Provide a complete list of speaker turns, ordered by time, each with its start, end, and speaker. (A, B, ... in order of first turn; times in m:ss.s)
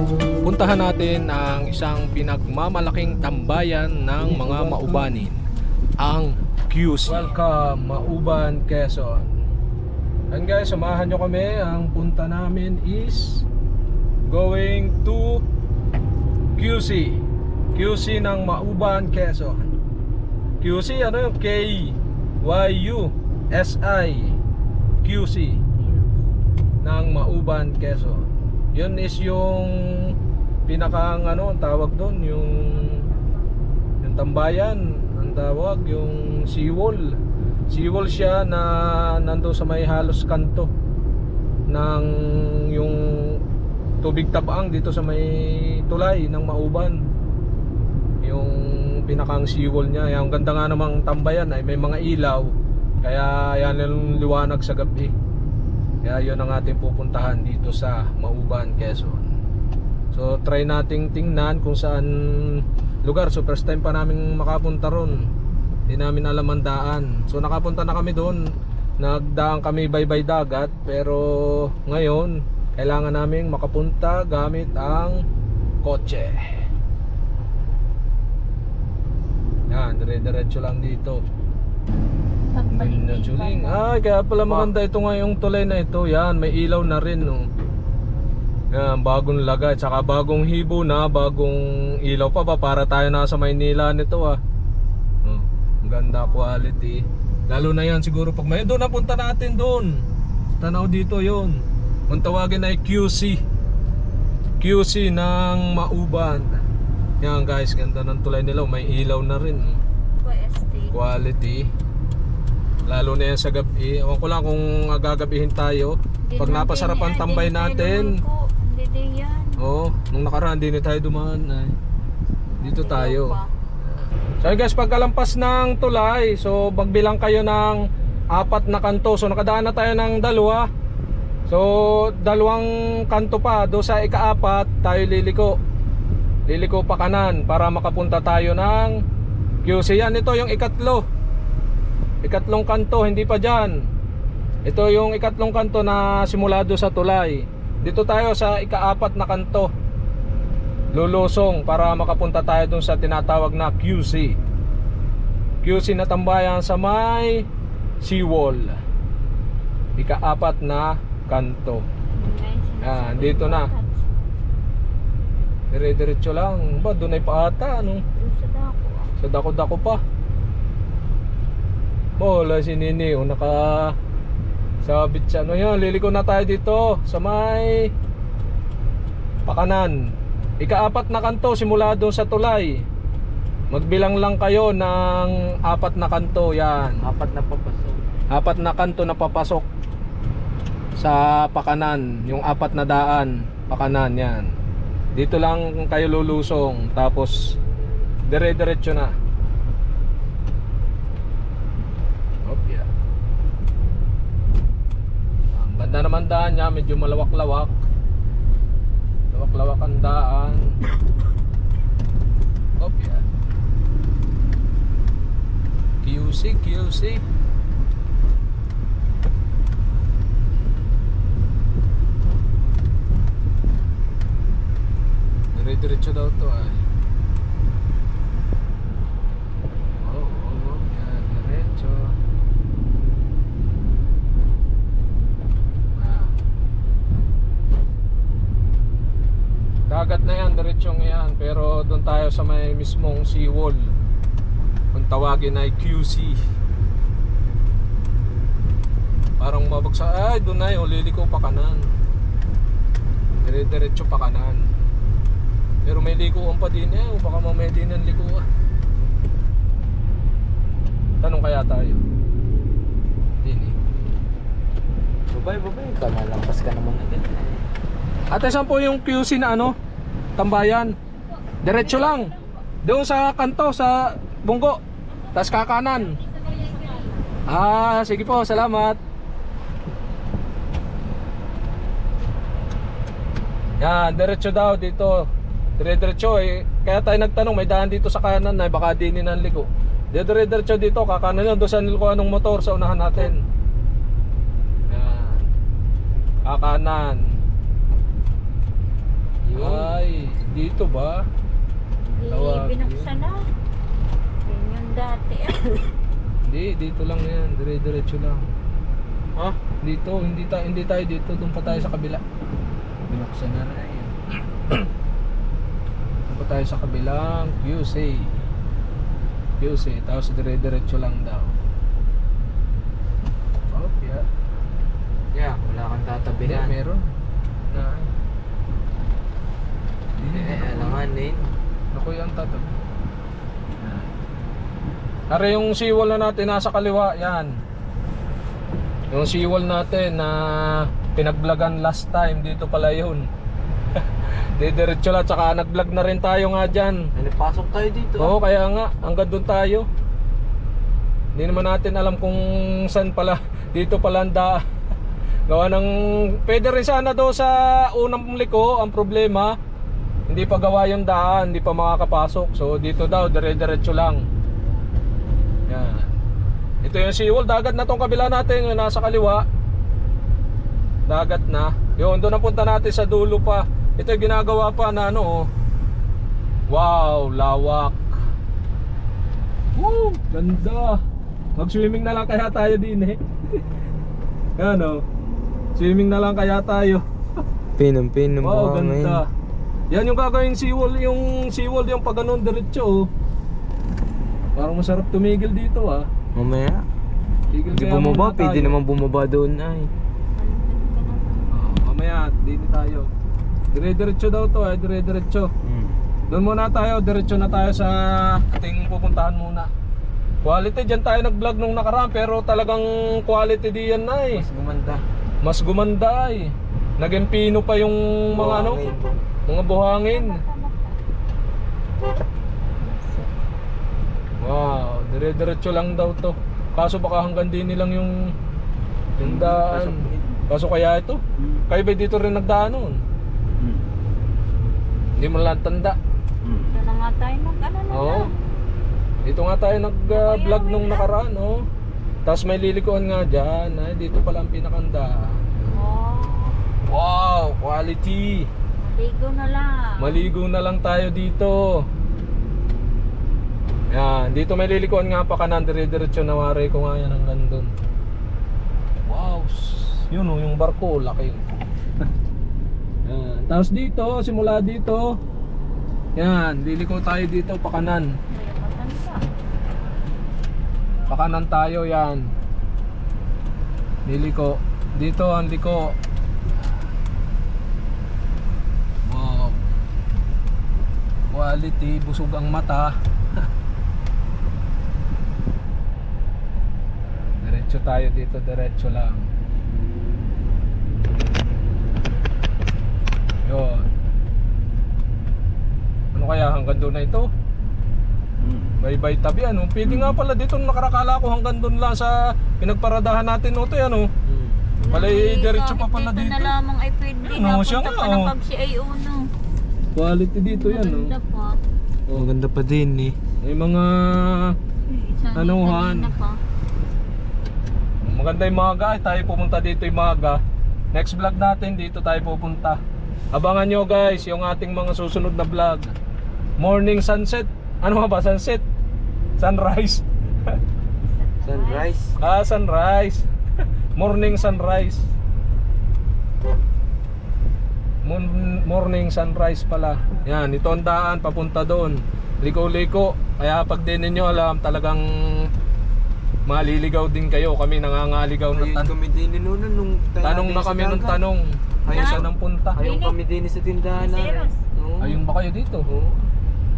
0:00.4-0:05.4 A
0:04.2-0:05.0 B
0:06.0-0:09.3 A
0:10.3-0:13.5 A
0:14.3-0:15.4 A
0:16.6-0:17.2 A
0:17.7-0:19.8 A
0:20.6-0:24.4 A
0:25.0-0:25.6 A
0:25.8-0:26.1 C
0:26.8-0:30.2 A
0:30.7-0:33.0 A
0:32.8-0:33.4 C
0:34.0-0:37.2 A
0:37.7-0:40.7 A
0:41.7-0:43.4 A
0:44.0-0:47.0 A
0:48.2-0:52.5 A
0:53.0-0:55.1 A
0:56.0-0:59.4 A
1:00.1-1:05.2 A
1:05.9-1:08.4 A
1:09.0-1:15.2 A
1:15.8-1:16.5 A
1:19.7-1:21.2 A
1:22.5-1:23.8 C
1:22.7-1:27.4 A
1:28.7-1:34.4 A
1:35.2-1:39.9 A
1:40.6-1:41.6 A
1:42.1-1:43.4 A
1:44.6-1:46.6 A
1:47.2-1:49.8 A
1:50.2-1:50.9 C
1:50.9-1:51.7 A
1:52.9-1:58.1 A
1:56.3-1:59.6 C
1:59.6-2:01.8 A
2:02.5-2:03.5 C
2:02.6-2:03.4 A
2:04.4-2:07.8 A
2:08.3-2:10.7 A
2:11.5-2:15.6 A
2:16.5-2:19.0 A
2:19.6-2:21.0 A
2:22.2-2:23.7 A
2:24.7-2:29.7 A
2:30.9-2:34.4 A
2:35.6-2:37.4 A
2:38.0-2:38.8 A
2:40.0-2:41.8 A
2:42.2-2:44.2 C
2:42.8-2:43.7 A
2:45.7-2:48.0 A
2:48.2-2:49.1 C
2:49.2-2:50.0 A
2:52.2-2:53.9 A
2:54.8-2:57.9 A
2:59.5-3:00.0 A
3:00.6-3:02.7 A
3:03.7-3:07.0 A
3:07.0-3:08.0 B
3:08.3-3:09.7 A
3:11.0-3:14.5 A
3:15.2-3:17.4 A
3:18.3-3:19.1 A
3:22.5-3:22.9 A
3:25.5-3:27.8 A
3:29.3-3:30.7 A
3:32.8-3:33.2 A
3:36.0-3:37.2 A
3:45.6-3:46.8 A
3:50.0-3:52.1 A
3:56.0-3:56.3 A
3:59.9-4:03.9 A
4:04.9-4:06.4 A
4:09.4-4:11.9 A
4:13.4-4:14.7 A
4:15.8-4:18.4 A
4:21.2-4:22.0 A
4:23.4-4:23.7 A
4:25.3-4:27.6 B
4:28.3-4:29.7 A
4:30.4-4:30.9 A
4:31.3-4:32.6 C
4:31.6-4:32.3 A
4:32.8-4:34.8 A
4:35.3-4:36.2 A
4:36.2-4:37.2 C
4:37.5-4:39.0 A
4:43.8-4:45.2 A
4:45.8-4:53.4 A
4:54.9-4:55.4 A
4:56.5-4:57.2 A
4:59.4-4:59.9 B
4:59.6-5:01.2 A
5:02.2-5:03.4 C
5:02.3-5:03.1 A
5:04.5-5:05.9 C
5:06.4-5:08.4 A
5:09.8-5:12.2 A
5:13.1-5:14.9 A
5:16.3-5:18.3 A
5:19.6-5:21.6 A
5:23.7-5:24.2 A
5:25.3-5:26.7 B
5:26.4-5:27.0 A
5:27.7-5:28.1 A
5:30.2-5:31.0 A
5:30.3-5:31.5 B
5:31.9-5:32.7 A
5:33.8-5:34.1 A
5:35.3-5:37.5 A
5:39.1-5:43.3 A
5:44.6-5:47.1 A
5:47.2-5:48.3 B
5:48.2-5:49.9 A
5:51.4-5:54.6 A
5:55.5-5:59.6 A
6:00.3-6:04.2 A
6:05.7-6:06.1 A
6:06.8-6:09.4 A
6:11.1-6:15.5 A
6:16.7-6:18.1 A
6:19.8-6:21.0 A
6:21.6-6:23.6 A
6:24.6-6:25.0 A
6:25.8-6:27.0 A
6:27.8-6:29.2 B
6:28.4-6:29.2 A
6:29.9-6:33.1 A
6:34.6-6:36.1 A
6:36.4-6:36.8 B
6:37.5-6:38.8 A
6:37.7-6:39.9 B
6:40.4-6:41.5 C
6:41.5-6:43.1 A
6:43.7-6:45.5 A
6:45.6-6:46.0 B
6:46.3-6:49.7 A
6:50.4-6:54.4 A
6:54.3-6:55.0 B
6:55.4-6:58.8 A
6:58.4-6:59.2 B
6:59.5-7:00.4 A
7:00.1-7:01.0 C
7:02.8-7:03.3 C
7:04.4-7:08.2 A
7:09.2-7:10.2 B
7:09.2-7:13.0 A
7:15.2-7:16.0 A
7:16.7-7:18.3 C
7:17.9-7:18.3 A
7:19.2-7:21.6 A
7:20.1-7:21.1 C
7:22.3-7:25.5 A
7:25.7-7:26.6 C
7:26.9-7:28.5 A
7:28.8-7:30.3 C
7:30.0-7:31.6 A
7:33.9-7:37.7 A
7:39.1-7:41.5 A
7:43.1-7:45.1 A
7:46.2-7:48.1 A
7:48.3-7:49.2 C
7:51.1-7:52.3 A
7:54.1-7:55.9 A
7:56.5-7:56.9 A
7:59.1-7:59.6 A
8:01.3-8:03.0 A
8:07.4-8:09.3 A
8:13.5-8:13.9 A
8:16.2-8:17.3 A
8:18.8-8:24.1 A
8:24.3-8:24.6 B
8:24.8-8:29.2 C
8:24.9-8:26.5 A
8:27.3-8:28.3 A
8:30.0-8:31.1 A
8:30.4-8:31.6 C
8:32.1-8:33.2 B
8:33.4-8:34.6 A
8:34.9-8:36.4 C
8:35.4-8:36.1 A
8:38.0-8:40.4 A
8:40.9-8:42.8 A
8:43.3-8:45.9 A
8:46.6-8:48.6 A
8:49.4-8:50.0 A
8:51.0-8:51.9 C
8:51.4-8:52.2 B
8:52.2-8:53.2 A
8:54.0-8:55.1 A
8:58.0-9:05.0 A
9:06.5-9:08.9 A
9:08.6-9:11.2 B
9:10.2-9:12.8 A
9:11.9-9:15.2 B
9:11.9-9:13.2 C
9:13.9-9:14.6 C
9:15.0-9:15.9 A
9:15.9-9:16.3 B